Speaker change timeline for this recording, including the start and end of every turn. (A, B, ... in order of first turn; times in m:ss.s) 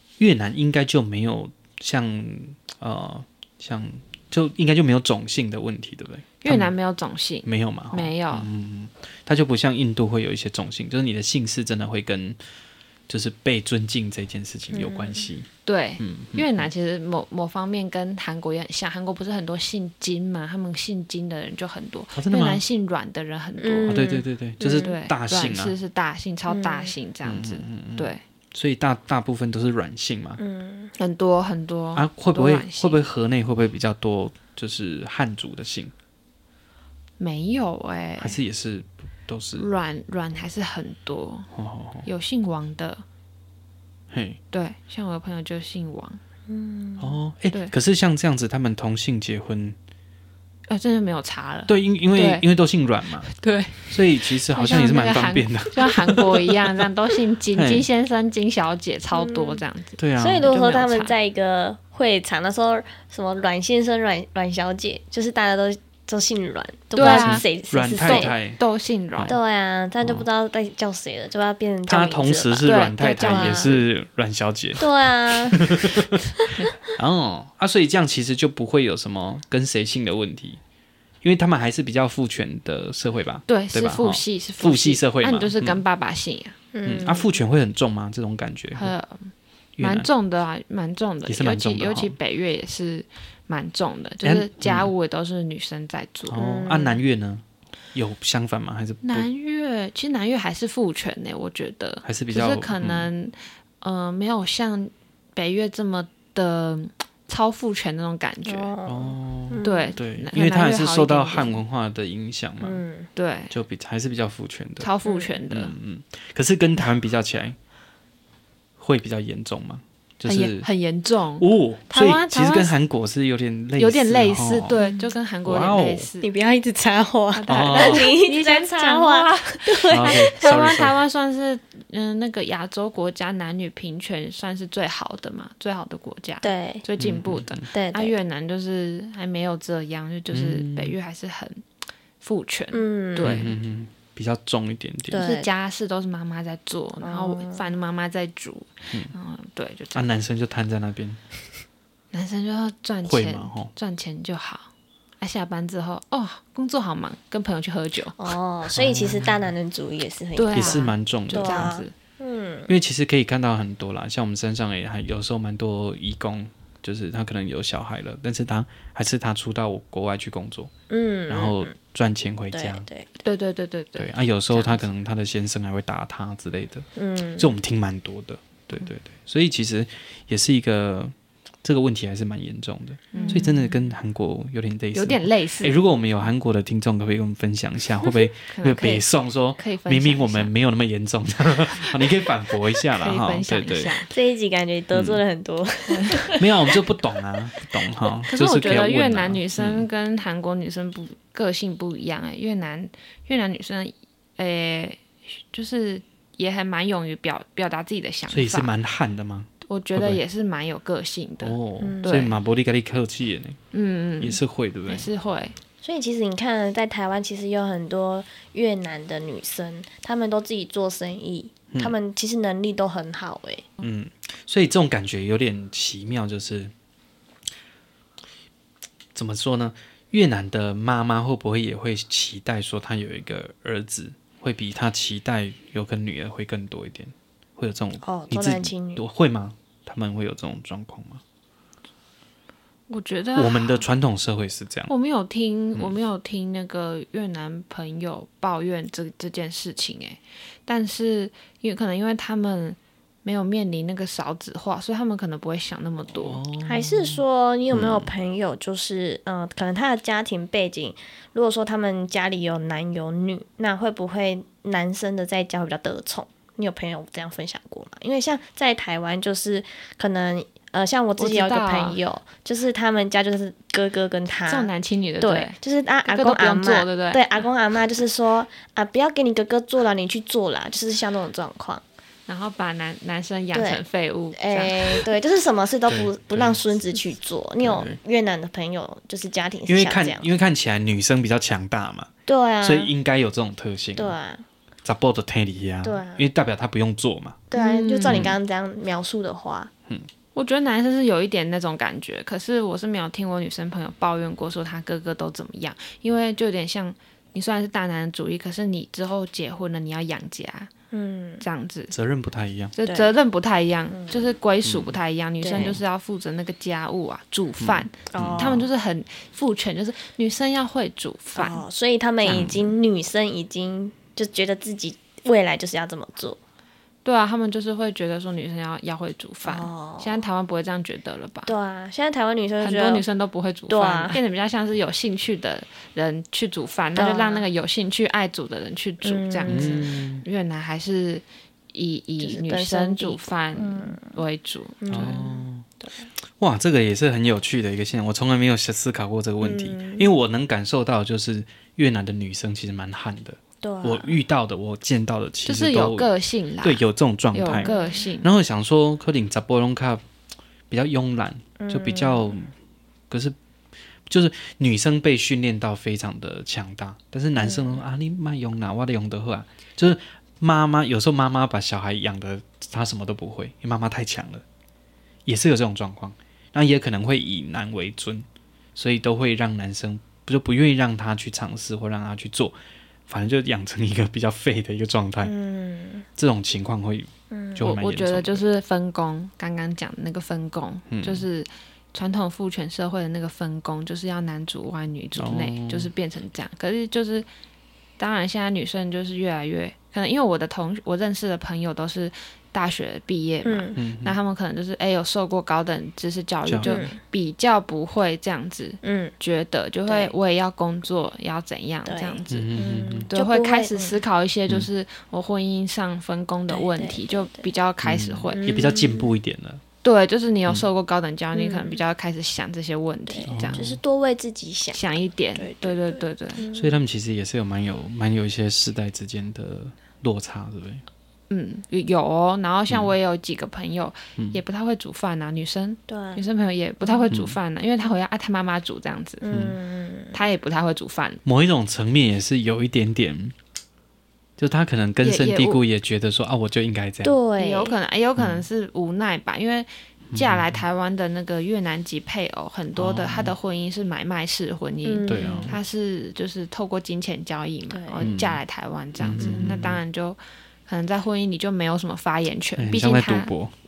0:00.2-0:06.7 A
0:06.4-0:08.5 B
0:07.4-0:12.4 A
0:13.1-0:15.5 A
0:14.7-0:15.3 C
0:15.6-0:24.1 B
0:16.0-0:16.7 A
0:22.2-0:22.6 A
0:23.6-0:24.9 C
0:23.9-0:25.8 A
0:24.7-0:28.2 B
0:26.5-0:26.9 C
0:27.2-0:30.4 A
0:30.4-0:30.9 C
0:31.0-0:33.0 B
0:31.9-0:35.9 A
0:37.2-0:38.4 B
0:38.2-0:39.7 A
0:39.6-0:41.5 B
0:41.5-0:42.1 A
0:42.0-0:43.0 B
0:44.1-0:44.4 A
0:44.5-0:46.2 B
0:46.5-0:47.2 C
0:47.0-0:49.8 A
0:50.7-0:52.4 B
0:51.7-0:53.3 A
0:53.3-1:01.1 B
0:53.9-0:56.8 A
0:57.5-0:57.8 A
0:59.1-0:59.6 C
1:00.0-1:00.5 A
1:00.2-1:08.3 C
1:06.9-1:09.4 B
1:07.0-1:08.6 A
1:09.2-1:13.8 C
1:10.0-1:10.2 A
1:11.9-1:16.2 A
1:12.6-1:13.8 B
1:14.8-1:16.5 C
1:16.9-1:20.6 A
1:21.2-1:25.8 A
1:23.5-1:26.6 B
1:26.7-1:27.3 C
1:26.8-1:28.9 A
1:28.8-1:36.4 B
1:29.8-1:30.1 A
1:31.2-1:32.2 A
1:34.2-1:34.9 A
1:36.3-1:37.4 A
1:36.4-1:37.0 C
1:37.9-1:39.3 A
1:39.0-1:48.7 B
1:42.0-1:43.1 A
1:48.4-1:50.0 C
1:48.8-1:52.8 A
1:49.6-1:51.6 B
1:52.6-1:53.1 C
1:53.2-1:53.5 B
1:53.5-1:54.9 A
1:54.8-1:55.8 B
1:55.0-1:55.3 C
1:55.5-1:57.6 A
1:58.8-2:00.7 A
2:00.2-2:02.7 B
2:01.4-2:04.8 A
2:03.8-2:06.3 B
2:04.8-2:05.1 C
2:05.4-2:06.1 A
2:06.2-2:10.6 C
2:07.3-2:21.6 B
2:07.5-2:08.1 A
2:09.9-2:11.0 A
2:16.4-2:16.8 C
2:17.0-2:17.6 A
2:17.7-2:18.2 C
2:20.3-2:20.9 A
2:22.2-2:23.5 B
2:22.7-2:23.4 C
2:23.2-2:25.2 A
2:25.1-2:25.5 C
2:25.2-2:30.0 B
2:27.0-2:27.6 C
2:29.9-2:31.2 A
2:32.1-2:34.7 B
2:33.0-2:33.7 A
2:35.2-2:38.2 B
2:38.2-2:42.7 C
2:38.7-2:39.3 A
2:40.4-2:41.9 B
2:40.5-2:41.8 A
2:42.7-2:50.7 A
2:50.9-2:51.7 C
2:51.3-2:52.8 A
2:52.5-2:53.1 C
2:53.2-2:54.8 B
2:54.0-3:01.1 A
2:57.0-2:57.5 C
3:01.6-3:13.9 A
3:03.1-3:03.7 B
3:03.1-3:03.5 C
3:04.9-3:05.8 B
3:08.5-3:09.0 B
3:09.6-3:10.5 B
3:12.9-3:14.1 B
3:14.1-3:16.8 C
3:14.9-3:15.2 A
3:15.9-3:16.3 B
3:16.3-3:19.8 A
3:18.3-3:28.7 B
3:28.3-3:30.2 A
3:29.6-3:32.4 B
3:31.4-3:33.6 A
3:31.8-3:32.1 C
3:33.7-3:35.5 B
3:34.2-3:35.1 A
3:35.8-3:43.6 C
3:43.8-3:46.7 A
3:49.1-4:01.2 A
3:58.0-3:59.0 C
4:02.9-4:03.8 B
4:03.3-4:04.9 A
4:04.9-4:16.4 B
4:16.1-4:18.1 A
4:16.6-4:41.8 C
4:31.2-4:32.0 B
4:34.4-4:37.4 B
4:42.3-4:45.1 B
4:43.5-4:43.8 C
4:44.3-4:50.3 C
4:45.9-4:46.6 A
4:47.6-4:48.0 A
4:49.7-4:52.1 A
4:52.3-4:52.9 C
4:52.6-4:54.1 A
4:54.0-4:54.4 C
4:54.8-4:57.4 A
4:55.8-4:56.2 C
4:57.5-4:59.7 C
4:57.5-4:58.3 B
4:58.1-4:58.3 A
5:00.3-5:10.7 B
5:10.9-5:11.4 C
5:11.4-5:11.9 B
5:11.9-5:12.7 A
5:12.8-5:21.6 B
5:12.8-5:13.1 C
5:13.9-5:14.3 C
5:14.6-5:15.0 A
5:15.4-5:15.8 C
5:17.6-5:18.6 A
5:18.1-5:18.6 C
5:21.3-5:26.4 C
5:22.2-5:22.6 B
5:22.3-5:22.6 A
5:27.0-5:31.5 B
5:29.4-5:30.2 C
5:31.4-5:33.0 C
5:32.6-5:45.2 B
5:33.7-5:34.2 C
5:36.9-5:37.4 C
5:39.0-5:39.8 C
5:39.5-5:40.2 A
5:42.2-5:44.2 C
5:44.8-5:46.1 C
5:44.9-5:45.6 A
5:46.4-5:56.1 A
5:49.4-5:50.1 C
5:53.6-5:54.2 C
5:55.4-5:56.8 B
5:56.6-6:00.0 A
5:57.3-5:58.3 B
5:57.6-5:58.1 C
6:00.7-6:02.5 A
6:01.6-6:02.3 C
6:03.1-6:03.4 A
6:04.1-6:14.4 A
6:07.4-6:07.8 C
6:15.2-6:22.6 A
6:23.1-6:25.3 A
6:25.2-6:26.1 C
6:26.2-6:28.4 A
6:27.3-6:27.7 C
6:27.6-6:37.2 B
6:30.9-6:31.2 A
6:35.2-6:35.9 A
6:38.0-6:58.4 B
6:43.4-6:43.8 C
6:43.8-6:44.2 A
6:46.4-6:46.8 A
6:46.6-6:47.0 C
6:48.8-6:49.1 C
6:49.8-6:50.1 C
6:51.8-6:54.0 C
6:52.3-6:53.1 A
6:56.5-6:57.5 C
6:57.8-6:59.6 A
6:58.3-6:59.1 C
6:59.8-7:03.6 B
7:01.3-7:01.8 C
7:03.1-7:04.8 C
7:03.3-7:03.8 A
7:04.7-7:06.4 B
7:05.3-7:06.8 C
7:06.5-7:10.8 A
7:11.3-7:19.2 B
7:12.7-7:12.9 A
7:14.2-7:14.4 A
7:15.9-7:16.2 C
7:17.1-7:17.4 A
7:19.2-7:20.2 C
7:19.3-7:19.6 A
7:20.1-7:21.2 B
7:21.2-7:23.3 A
7:24.4-7:27.2 A
7:25.0-7:25.6 B
7:27.0-7:27.7 C
7:27.4-7:43.3 B
7:28.2-7:28.4 A
7:30.1-7:30.6 A
7:32.7-7:33.3 A
7:34.8-7:35.5 C
7:35.1-7:35.6 A
7:37.7-7:38.1 C
7:38.0-7:38.4 A
7:39.0-7:39.8 A
7:39.2-7:39.6 C
7:42.6-7:43.5 A